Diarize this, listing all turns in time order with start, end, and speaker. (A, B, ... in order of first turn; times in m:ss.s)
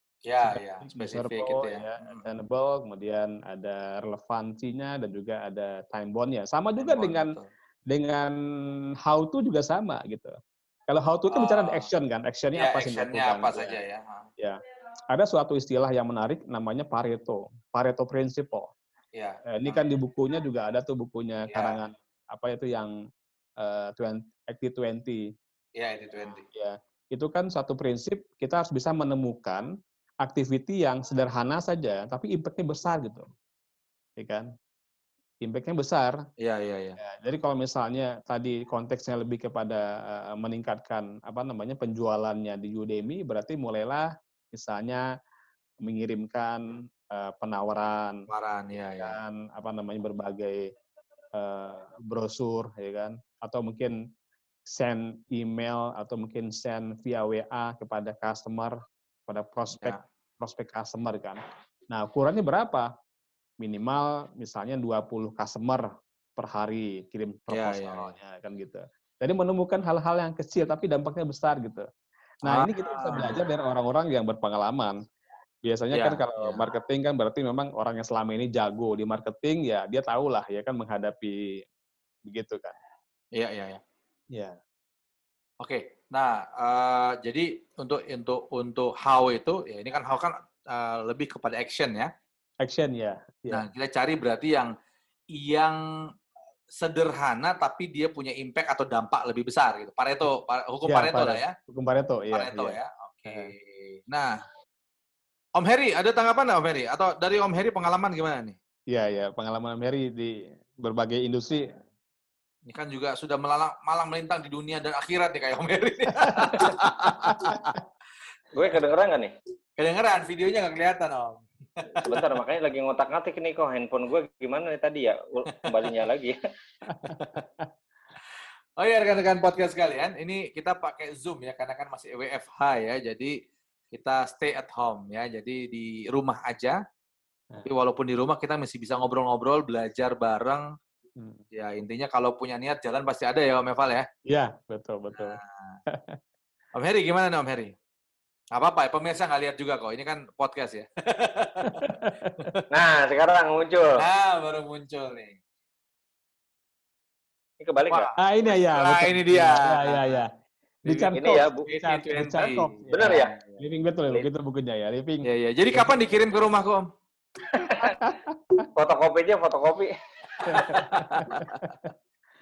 0:00.2-0:02.4 A
0:00.4-0:07.3 B
0:06.8-0:07.5 A
0:07.9-0:08.3 B
0:09.0-0:10.3 B
0:10.9-0:13.7 B
0:11.3-0:11.9 A
0:12.6-0:14.3 A
0:15.1-0:18.7 B
0:19.1-0:19.9 A
0:19.5-0:22.9 B
0:21.5-0:21.8 A
0:23.6-0:25.2 B
0:25.8-0:26.4 A
0:26.2-0:29.6 B
0:30.2-0:33.3 B
0:34.2-0:34.5 B
0:35.4-0:36.2 B
0:36.4-0:37.0 A
0:37.0-0:45.0 B
0:45.8-0:48.2 B
0:48.3-0:49.2 A
0:49.0-0:50.6 B
0:51.4-0:54.0 B
0:54.6-1:02.9 B
1:03.6-1:11.8 B
1:07.5-1:08.1 A
1:12.4-1:15.0 B
1:12.4-1:13.4 A
1:15.6-1:21.4 B
1:15.9-1:16.6 A
1:22.3-1:22.8 B
1:23.4-1:23.8 A
1:25.6-1:32.1 A
1:32.6-1:33.6 B
1:33.5-1:34.7 A
1:35.3-1:35.8 A
1:36.7-1:41.5 A
1:40.8-1:43.5 B
1:42.3-1:44.3 A
1:45.6-1:48.6 A
1:48.9-1:51.7 B
1:52.7-1:57.8 A
1:56.1-1:57.8 B
1:58.5-1:59.3 C
1:59.8-2:02.2 A
2:02.0-2:06.4 C
2:05.6-2:05.9 A
2:06.9-2:07.7 B
2:07.0-2:07.4 A
2:08.8-2:13.4 A
2:13.9-2:16.8 A
2:17.6-2:20.7 A
2:21.2-2:21.4 B
2:21.5-2:24.0 A
2:24.3-2:26.2 B
2:25.1-2:25.8 A
2:26.7-2:27.7 A
2:28.5-2:32.6 A
2:31.6-2:32.5 B
2:32.7-2:34.0 C
2:34.0-2:35.4 A
2:37.6-2:38.1 C
2:37.9-2:40.2 A
2:38.2-2:40.3 B
2:40.8-2:46.0 B
2:40.9-2:42.8 A
2:41.1-2:41.7 C
2:42.9-2:43.5 C
2:45.2-2:46.8 A
2:47.5-2:47.9 C
2:47.6-2:48.6 B
2:48.8-2:50.8 C
2:50.4-2:51.6 A
2:50.5-2:51.9 B